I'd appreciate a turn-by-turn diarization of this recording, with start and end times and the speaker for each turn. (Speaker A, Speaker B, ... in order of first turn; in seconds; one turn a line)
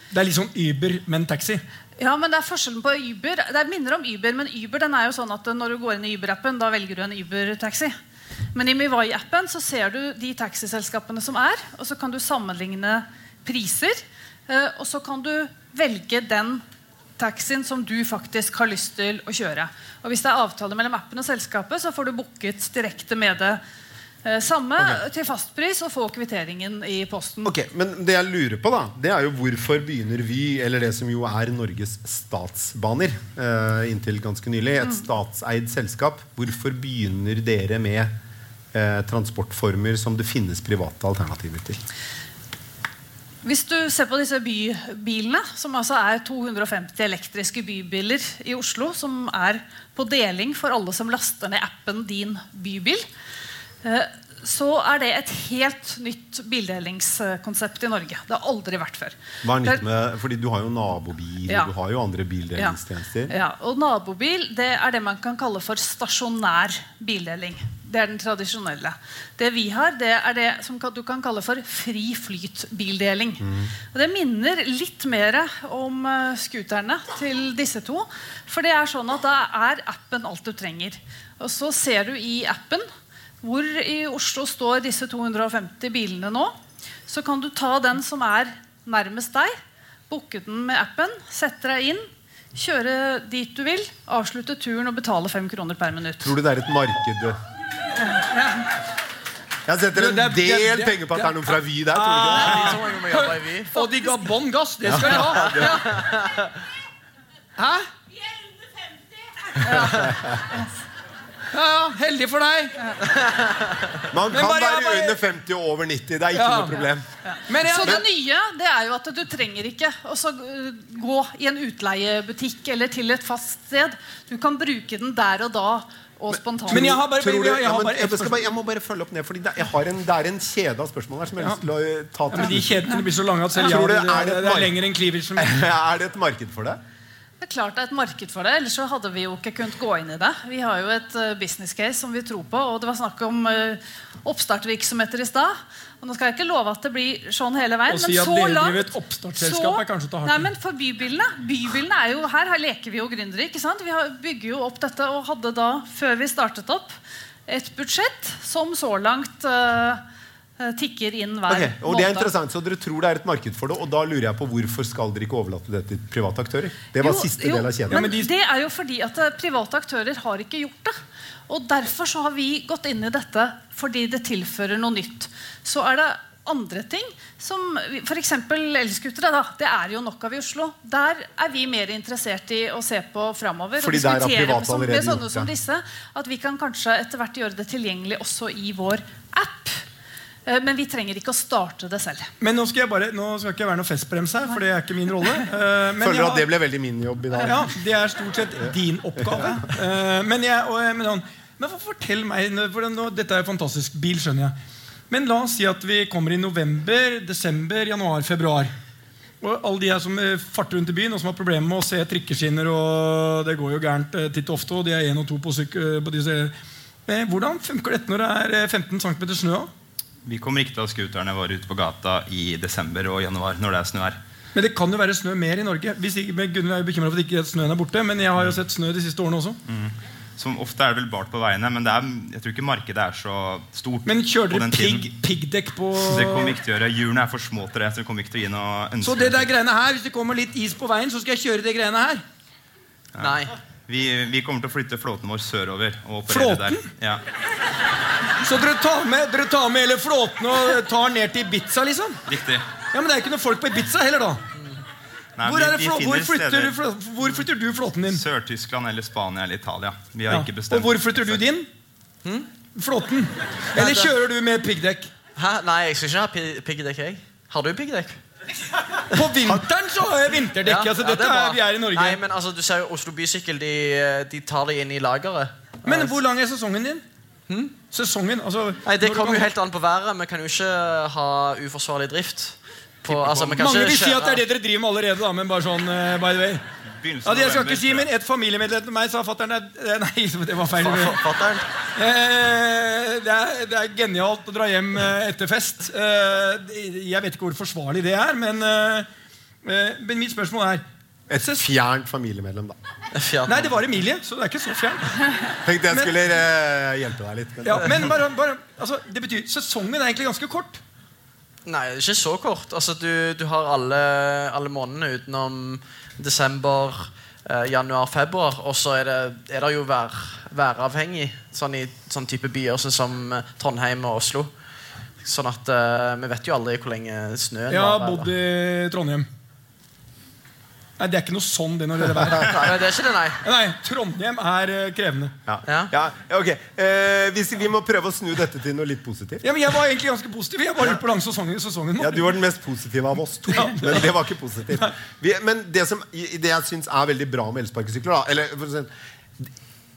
Speaker A: 0.1-1.6
Speaker B: 2.0-7.9
Speaker B: 8.5-16.6
Speaker B: 17.2-23.6
Speaker B: 24.2-27.5
Speaker C: 27.4-38.1
Speaker C: 38.7-41.8
Speaker B: 43.4-53.0
Speaker B: 53.8-59.8
Speaker C: 59.4-63.3
Speaker B: 63.3-82.9
Speaker B: 83.4-86.5
Speaker B: 87.1-89.5
Speaker B: 90.1-96.3
Speaker C: 96.2-97.4
Speaker A: 98.1-98.7
Speaker C: 99.7-102.8
Speaker A: 100.0-105.7
Speaker D: 102.2-103.8
Speaker C: 104.9-105.8
Speaker D: 105.2-106.5
Speaker A: 107.6-107.9
Speaker B: 109.6-110.7
Speaker C: 109.8-110.3
Speaker A: 111.5-113.0
Speaker C: 114.1-117.0
Speaker A: 114.3-115.2
Speaker A: 116.3-116.8
Speaker B: 117.2-126.9
Speaker A: 117.5-118.0
Speaker C: 126.3-132.8
Speaker A: 126.7-128.3
Speaker A: 132.3-135.6
Speaker B: 132.4-133.0
Speaker C: 133.6-134.7
Speaker C: 135.3-136.8
Speaker B: 137.4-156.9
Speaker A: 147.9-150.5
Speaker B: 157.5-160.0
Speaker B: 160.6-162.3
Speaker C: 161.5-168.1
Speaker B: 167.0-189.8
Speaker A: 167.9-168.3
Speaker C: 183.8-185.5
Speaker B: 190.4-192.3
Speaker A: 192.4-196.4
Speaker C: 196.0-197.7
Speaker A: 197.4-204.5
Speaker C: 199.3-199.7
Speaker A: 205.1-208.7
Speaker A: 209.4-216.5
Speaker A: 217.1-219.7
Speaker E: 220.2-224.2
Speaker A: 224.5-229.6
Speaker E: 229.7-235.1
Speaker A: 234.1-236.6
Speaker E: 236.0-239.5
Speaker A: 239.0-242.2
Speaker E: 243.2-247.2
Speaker D: 243.2-243.5
Speaker A: 246.3-246.9
Speaker A: 248.4-252.2
Speaker E: 252.3-252.6
Speaker A: 252.9-254.4
Speaker E: 255.4-256.8
Speaker A: 255.4-258.2
Speaker E: 258.1-261.4
Speaker A: 260.3-261.7
Speaker D: 262.2-262.5
Speaker A: 262.7-265.1
Speaker D: 263.7-264.1
Speaker D: 265.4-268.2
Speaker A: 269.1-272.2
Speaker D: 270.6-276.1
Speaker A: 275.8-277.0
Speaker D: 277.5-277.8
Speaker A: 277.8-279.4
Speaker D: 278.8-284.4
Speaker E: 283.1-283.6
Speaker A: 283.6-286.6
Speaker E: 287.0-288.1
Speaker A: 287.2-291.2
Speaker D: 290.8-291.7
Speaker A: 291.9-299.1
Speaker A: 299.6-300.8
Speaker C: 301.3-302.8
Speaker A: 301.4-301.6
Speaker D: 303.1-303.7
Speaker A: 303.5-306.1
Speaker C: 305.6-308.1
Speaker A: 307.6-310.8
Speaker D: 311.6-324.5
Speaker D: 325.2-328.3
Speaker A: 327.7-329.3
Speaker A: 331.0-332.8
Speaker D: 332.4-333.4
Speaker A: 333.4-335.3
Speaker C: 335.5-339.4
Speaker D: 335.6-335.9
Speaker A: 339.4-342.2
Speaker C: 342.0-349.5
Speaker A: 343.5-344.1